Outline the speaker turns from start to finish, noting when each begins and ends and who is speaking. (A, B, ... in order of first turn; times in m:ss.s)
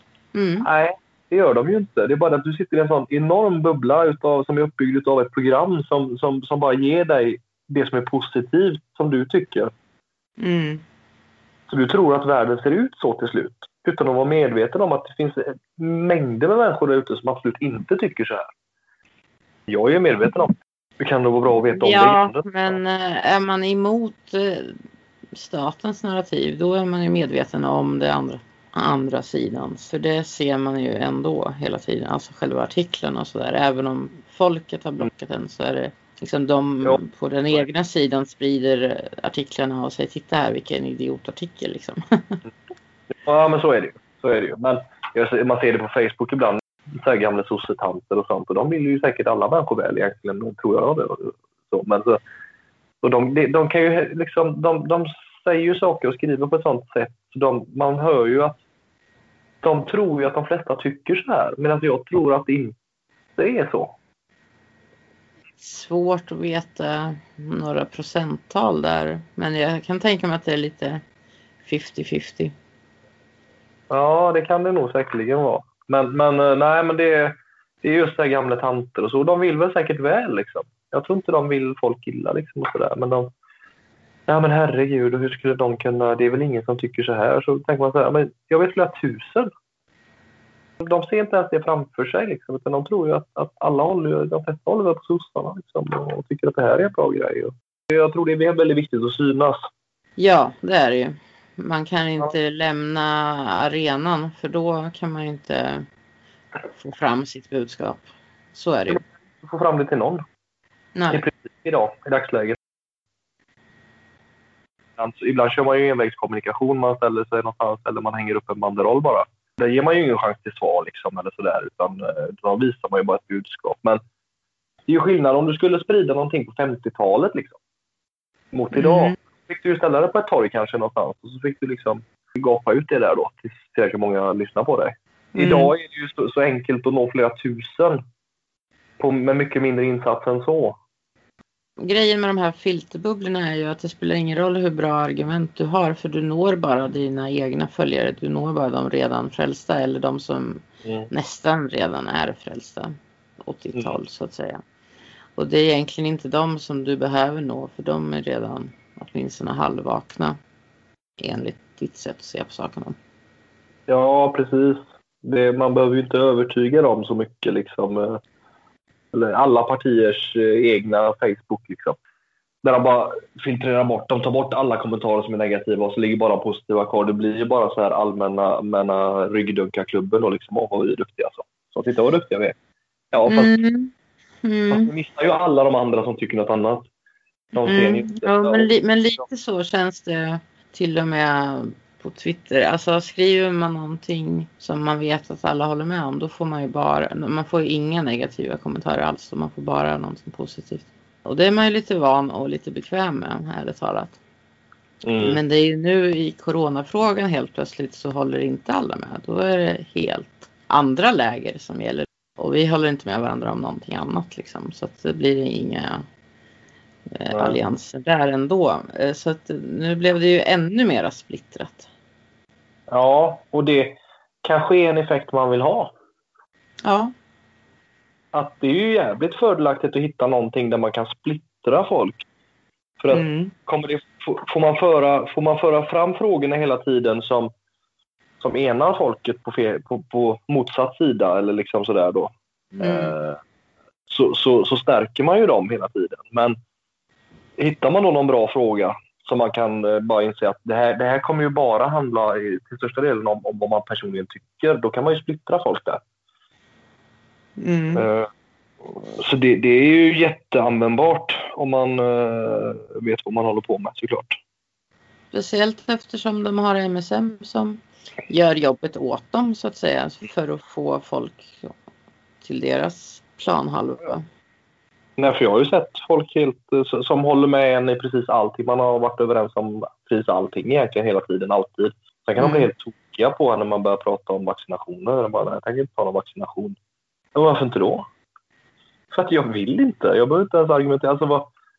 0:00.3-0:00.7 A
0:00.6-0:09.7 B
0:10.4-0:10.8 A
0:11.7-0:18.5 B
0:19.7-0:22.8 B
0:21.7-0:24.8 A
0:25.3-0:42.4 A
0:43.1-0:52.2 B
0:53.0-0:58.6 B
0:59.6-1:02.8 B
1:03.4-1:03.9 B
1:05.6-1:11.0 A
1:11.6-1:12.5 A
1:13.9-1:23.3 B
1:24.3-1:29.5 B
1:30.8-1:39.7 B
1:40.2-1:45.8 A
1:46.7-1:49.0 A
1:48.9-1:50.2 B
1:50.9-1:51.2 A
1:51.1-1:52.6 B
1:55.0-2:04.0 B
2:04.9-2:07.6 B
2:08.5-2:18.0 B
2:08.7-2:09.2 A
2:15.3-2:15.7 A
2:19.0-2:20.8 B
2:21.8-2:34.6 A
2:30.8-2:31.1 B
2:35.4-2:40.4 A
2:41.2-2:43.0 A
2:43.9-2:48.2 B
2:49.1-2:52.0 B
2:52.6-3:02.6 B
3:03.1-3:03.5 B
3:03.3-3:03.9 A
3:04.4-3:04.9 A
3:04.7-3:06.8 B
3:07.5-3:08.7 B
3:07.6-3:24.2 A
3:25.0-3:25.4 B
3:25.2-3:36.0 A
3:37.1-3:41.9 A
3:37.3-3:37.6 B
3:42.9-3:45.9 B
3:46.8-3:47.1 A
3:48.3-3:52.2 B
3:53.0-3:57.5 B
3:53.1-3:53.5 A
3:58.4-4:03.4 B
4:02.8-4:03.2 A
4:04.1-4:06.6 B
4:07.6-4:16.0 B
4:17.6-4:18.1 A
4:17.9-4:18.3 B
4:18.8-4:24.4 B
4:25.3-4:31.7 A
4:32.4-4:34.2 A
4:35.2-4:46.8 B
4:42.4-4:42.7 A
4:47.3-4:48.1 B
4:49.1-4:51.5 B